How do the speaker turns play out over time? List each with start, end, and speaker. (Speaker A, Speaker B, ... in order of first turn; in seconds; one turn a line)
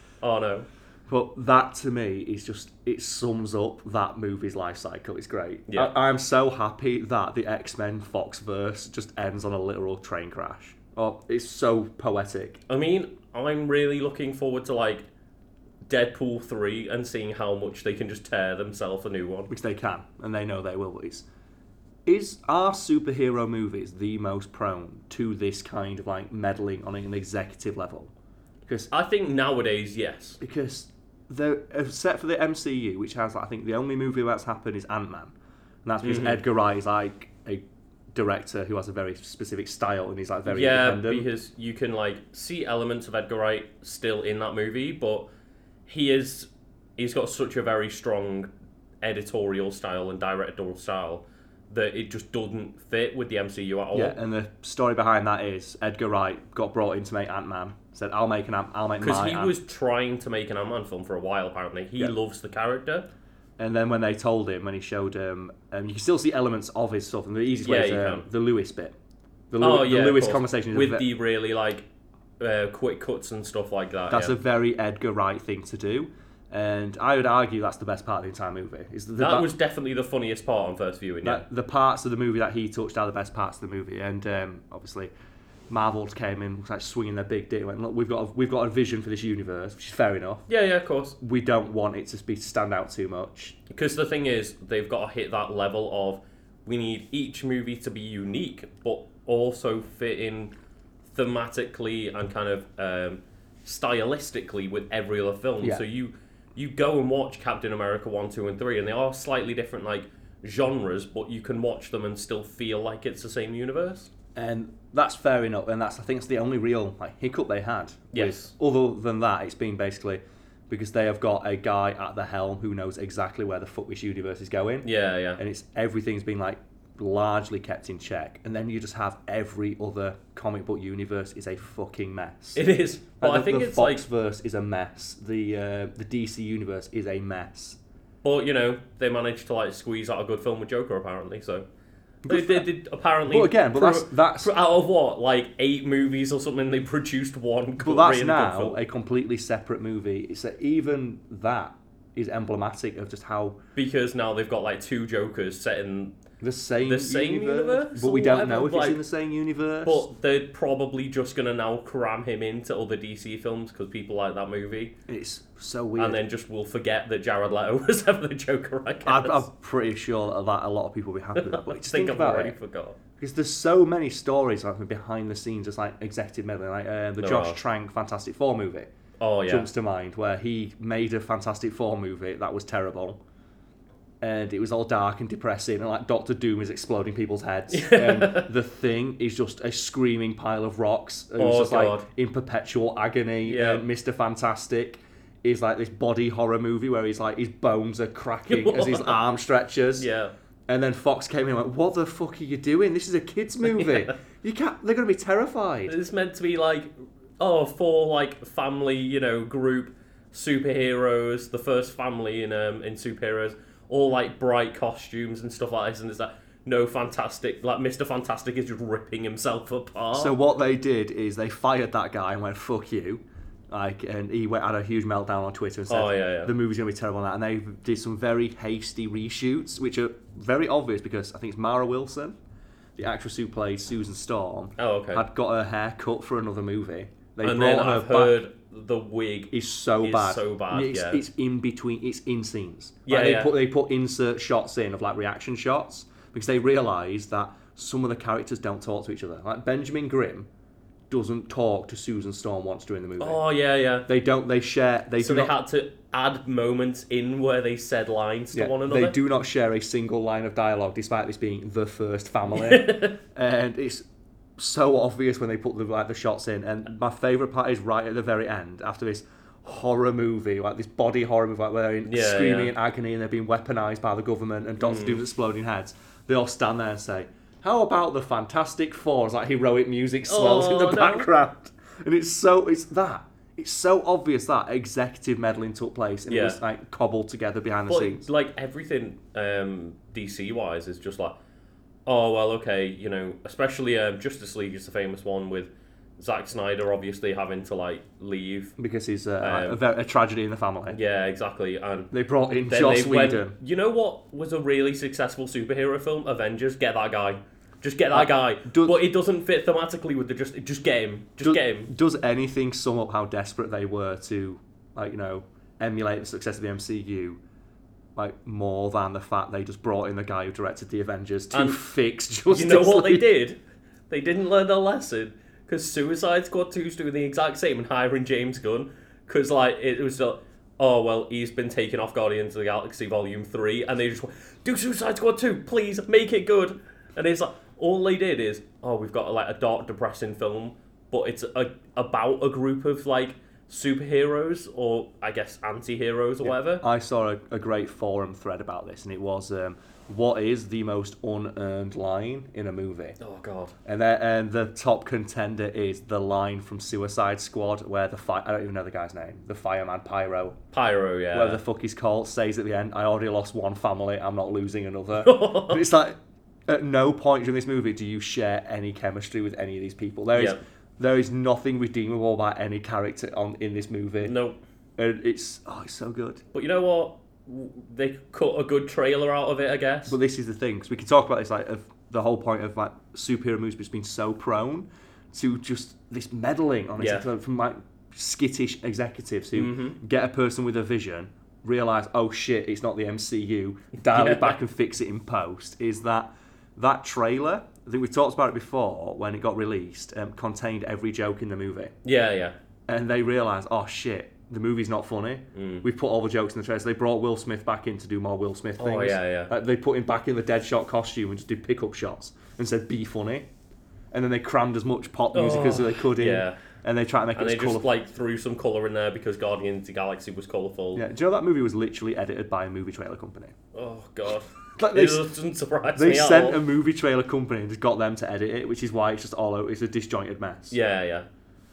Speaker A: 0.2-0.7
Speaker B: 1.1-12.6
Speaker A: 5.7-5.9
Speaker A: 12.7-15.0
Speaker A: 15.9-19.5
Speaker B: 19.5-21.2
Speaker B: 22.1-28.1
Speaker A: 28.9-30.4
Speaker B: 30.4-35.3
Speaker B: 35.8-41.3
Speaker A: 36.0-36.4
Speaker A: 40.5-45.3
Speaker A: 45.9-48.5
Speaker A: 49.0-54.2
Speaker B: 53.9-59.5
Speaker A: 59.0-63.1
Speaker B: 63.6-68.9
Speaker A: 67.6-68.2
Speaker B: 69.5-71.1
Speaker A: 69.6-71.8
Speaker A: 72.4-74.4
Speaker B: 74.1-79.5
Speaker A: 79.2-81.4
Speaker B: 81.2-85.1
Speaker B: 85.7-90.5
Speaker A: 90.5-91.2
Speaker B: 91.2-93.6
Speaker A: 93.7-100.5
Speaker A: 101.1-114.1
Speaker B: 114.3-132.6
Speaker A: 118.1-118.5
Speaker A: 124.8-125.4
Speaker A: 132.6-134.0
Speaker B: 133.2-137.8
Speaker A: 138.2-141.7
Speaker B: 142.2-142.7
Speaker A: 142.2-148.8
Speaker B: 143.3-144.5
Speaker B: 147.8-153.6
Speaker A: 153.8-156.2
Speaker B: 156.4-160.1
Speaker A: 156.8-159.0
Speaker A: 159.8-164.9
Speaker B: 165.1-166.2
Speaker A: 166.0-169.4
Speaker B: 169.0-172.6
Speaker A: 171.3-173.0
Speaker B: 173.2-178.9
Speaker A: 177.2-177.6
Speaker A: 179.2-179.7
Speaker B: 179.5-183.2
Speaker B: 184.2-200.1
Speaker A: 187.7-188.5
Speaker A: 191.4-192.1
Speaker A: 193.4-193.8
Speaker A: 198.5-199.2
Speaker A: 200.0-200.3
Speaker B: 200.7-205.9
Speaker A: 203.7-204.1
Speaker A: 205.9-220.3
Speaker B: 220.1-232.3
Speaker A: 225.9-226.5
Speaker B: 232.9-238.4
Speaker A: 234.8-235.2
Speaker A: 237.4-241.2
Speaker B: 239.5-250.5
Speaker A: 243.1-243.5
Speaker B: 251.1-253.4
Speaker A: 253.2-254.1
Speaker B: 254.1-255.5
Speaker A: 255.2-259.1
Speaker B: 258.5-264.0
Speaker A: 262.5-263.2
Speaker B: 264.6-288.3
Speaker A: 272.1-272.7
Speaker A: 274.8-275.2
Speaker A: 280.3-281.3
Speaker A: 286.3-286.6
Speaker A: 287.9-291.4
Speaker A: 292.1-298.7
Speaker B: 298.8-301.0
Speaker A: 299.4-299.8
Speaker A: 300.9-302.1
Speaker B: 302.1-303.6
Speaker A: 302.7-311.9
Speaker B: 308.1-309.0
Speaker B: 311.4-317.4
Speaker B: 318.1-323.3
Speaker A: 321.5-321.8
Speaker A: 322.5-346.8
Speaker B: 346.4-353.2
Speaker A: 353.2-353.7
Speaker B: 353.8-360.6
Speaker A: 360.7-361.6
Speaker B: 361.3-374.3
Speaker A: 365.2-365.8
Speaker A: 374.2-374.6
Speaker B: 375.0-376.4
Speaker A: 376.5-380.1
Speaker B: 380.1-401.9
Speaker A: 387.0-387.3
Speaker A: 389.6-390.0
Speaker A: 394.0-394.6
Speaker A: 402.0-402.6
Speaker B: 402.9-413.5
Speaker A: 405.5-405.8
Speaker A: 408.8-409.5
Speaker B: 414.1-417.9
Speaker A: 415.3-416.6
Speaker A: 417.4-421.0
Speaker B: 420.9-423.5
Speaker A: 423.7-426.6
Speaker B: 424.8-425.3
Speaker B: 425.9-430.8
Speaker A: 430.7-431.3